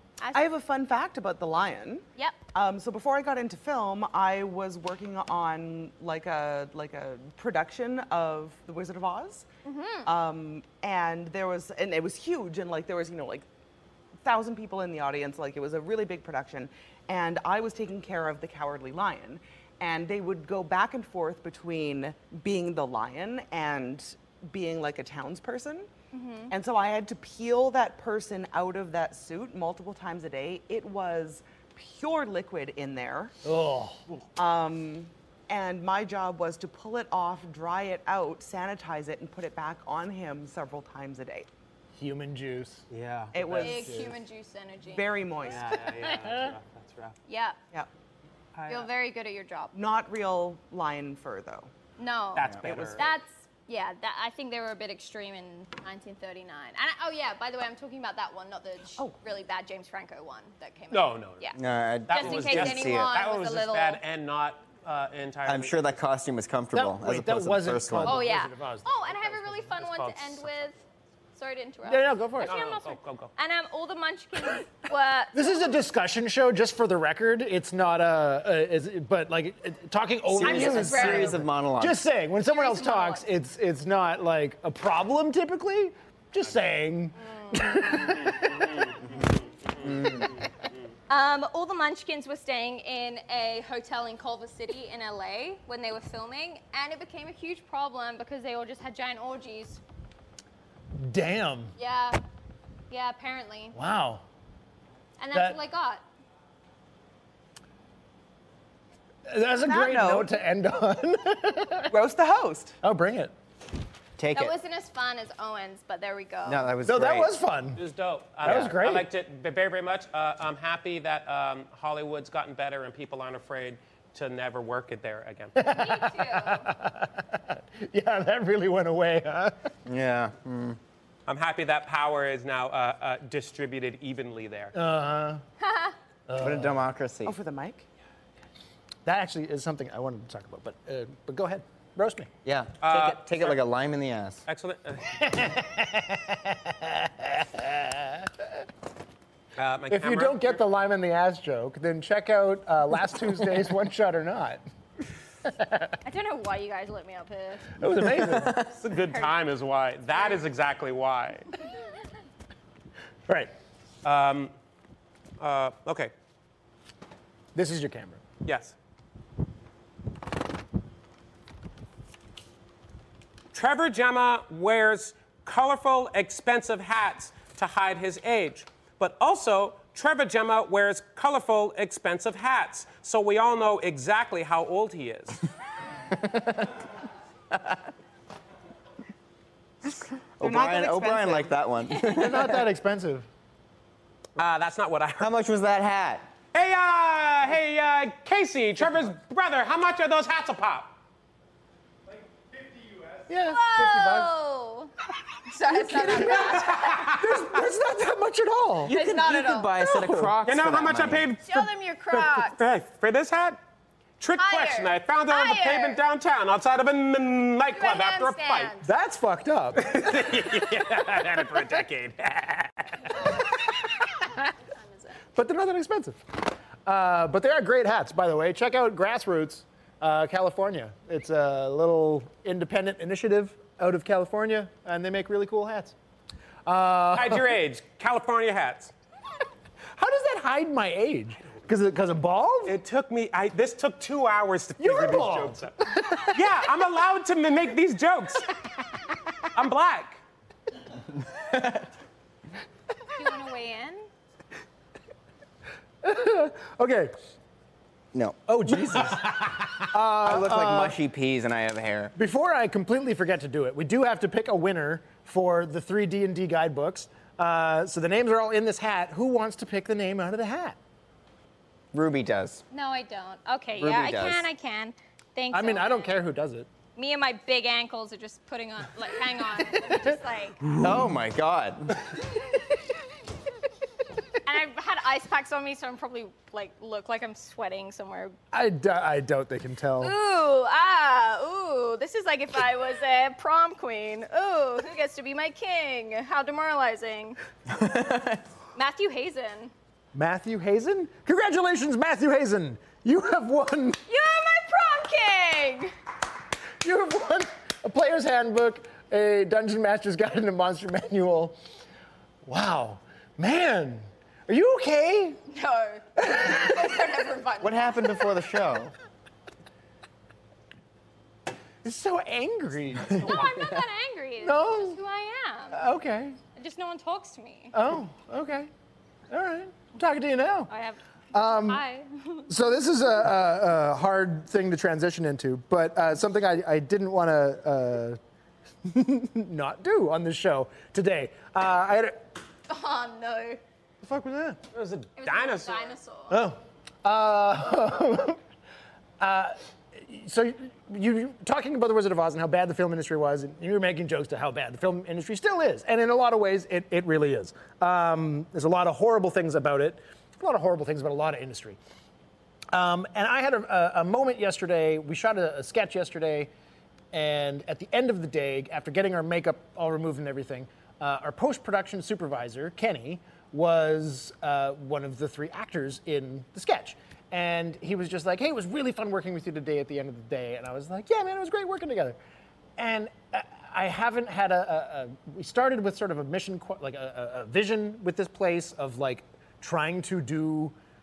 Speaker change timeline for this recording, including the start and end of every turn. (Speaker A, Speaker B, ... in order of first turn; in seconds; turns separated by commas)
Speaker A: 0.3-9.4, Speaker B: 9.6-10.1, Speaker A: 10.0-13.5, Speaker A: 14.2-25.9, Speaker B: 26.1-26.5, Speaker A: 26.5-33.3, Speaker C: 33.4-34.0, Speaker A: 34.4-41.5, Speaker C: 41.9-42.9, Speaker D: 42.9-43.7, Speaker A: 43.3-44.1, Speaker C: 43.4-44.1, Speaker B: 43.6-45.1, Speaker A: 44.9-45.8, Speaker D: 45.4-47.2, Speaker C: 46.0-46.5, Speaker B: 47.3-47.6, Speaker D: 48.5-48.9, Speaker B: 48.7-49.7, Speaker A: 49.7-51.7, Speaker B: 52.0-61.6, Speaker D: 52.3-53.0, Speaker A: 52.6-53.1, Speaker D: 60.9-61.5, Speaker E: 61.5-63.1, Speaker D: 62.1-66.0, Speaker B: 62.1-64.0, Speaker E: 65.5-68.2, Speaker C: 66.7-69.2, Speaker B: 68.0-70.8, Speaker D: 69.5-70.5, Speaker B: 71.3-75.7, Speaker C: 71.8-72.6, Speaker D: 72.4-73.3, Speaker C: 75.3-88.7, Speaker E: 80.3-82.0, Speaker B: 80.4-81.4, Speaker B: 82.5-83.2, Speaker B: 87.3-88.0, Speaker E: 89.8-90.2, Speaker B: 91.1-99.8, Speaker C: 101.0-101.7, Speaker B: 101.8-102.2, Speaker B: 102.9-103.8, Speaker C: 103.7-104.2, Speaker B: 105.2-106.0, Speaker C: 105.3-105.6, Speaker C: 109.2-111.9, Speaker A: 109.6-110.3, Speaker A: 111.8-112.8, Speaker C: 112.8-113.3, Speaker E: 114.2-114.5, Speaker B: 114.3-116.7, Speaker E: 116.4-117.3, Speaker C: 116.8-117.8, Speaker D: 117.8-125.7, Speaker C: 118.4-119.1, Speaker C: 125.5-129.5, Speaker B: 125.7-126.7, Speaker E: 129.8-130.8, Speaker D: 131.3-134.7, Speaker C: 134.7-135.4, Speaker B: 135.6-135.9, Speaker C: 136.3-136.8, Speaker E: 136.4-137.3, Speaker A: 137.2-137.8, Speaker C: 139.0-142.3, Speaker E: 142.4-144.4, Speaker D: 142.8-143.6, Speaker D: 144.5-145.2, Speaker C: 145.1-148.6, Speaker D: 149.6-150.6, Speaker C: 149.9-154.6, Speaker C: 155.4-155.9, Speaker B: 156.0-157.8, Speaker C: 157.8-158.7, Speaker D: 158.7-161.5, Speaker D: 164.0-164.5, Speaker D: 165.4-166.1, Speaker C: 167.5-168.2, Speaker D: 168.4-168.7, Speaker D: 173.5-185.4, Speaker E: 186.2-186.7, Speaker E: 190.4-192.6, Speaker A: 190.4-191.5, Speaker C: 192.1-193.3, Speaker D: 194.3-195.3, Speaker E: 195.2-196.3, Speaker D: 196.5-200.9, Speaker C: 203.3-204.3, Speaker B: 203.4-204.9, Speaker B: 205.5-207.1, Speaker C: 205.6-208.9, Speaker D: 206.3-207.4, Speaker E: 208.8-211.3, Speaker B: 208.8-210.0, Speaker C: 209.9-210.3, Speaker D: 210.4-213.6, Speaker B: 211.4-212.6, Speaker D: 214.2-218.7, Speaker B: 214.4-216.0, Speaker B: 217.7-218.9, Speaker C: 218.8-220.4, Speaker D: 219.8-223.2, Speaker B: 224.7-225.2, Speaker C: 225.3-235.9, Speaker C: 236.6-237.6, Speaker D: 237.1-238.9, Speaker C: 239.9-242.8, Speaker D: 242.7-248.6, Speaker C: 244.8-246.4, Speaker D: 249.5-250.2, Speaker B: 253.1-254.1, Speaker C: 256.0-257.1, Speaker E: 258.1-258.4, Speaker C: 258.5-261.0, Speaker E: 260.2-262.1, Speaker C: 262.1-270.8, Speaker E: 271.9-272.6, Speaker B: 272.7-276.1, Speaker E: 273.8-274.4, Speaker C: 275.5-276.7, Speaker B: 276.9-280.7, Speaker C: 279.6-281.1, Speaker E: 280.8-282.0, Speaker B: 284.4-288.4, Speaker C: 288.5-290.1, Speaker B: 290.0-297.4, Speaker E: 297.8-298.4, Speaker B: 298.7-299.7, Speaker C: 300.1-304.0, Speaker B: 304.1-305.9, Speaker C: 306.8-311.6, Speaker C: 312.4-315.4, Speaker B: 315.5-318.3, Speaker C: 316.2-316.6, Speaker E: 317.6-318.9, Speaker C: 321.8-323.6, Speaker B: 323.1-325.8, Speaker C: 324.4-325.0, Speaker C: 325.7-326.4, Speaker B: 326.5-327.8, Speaker C: 327.7-328.7, Speaker C: 329.3-330.7, Speaker B: 330.7-332.5, Speaker C: 331.3-331.8, Speaker C: 332.5-338.2, Speaker C: 338.8-342.2, Speaker B: 342.7-343.6, Speaker C: 344.0-344.6, Speaker D: 344.7-345.9, Speaker B: 345.2-346.4, Speaker C: 346.3-348.4, Speaker C: 349.2-361.8, Speaker C: 362.7-366.5, Speaker C: 367.1-382.2, Speaker C: 382.8-390.7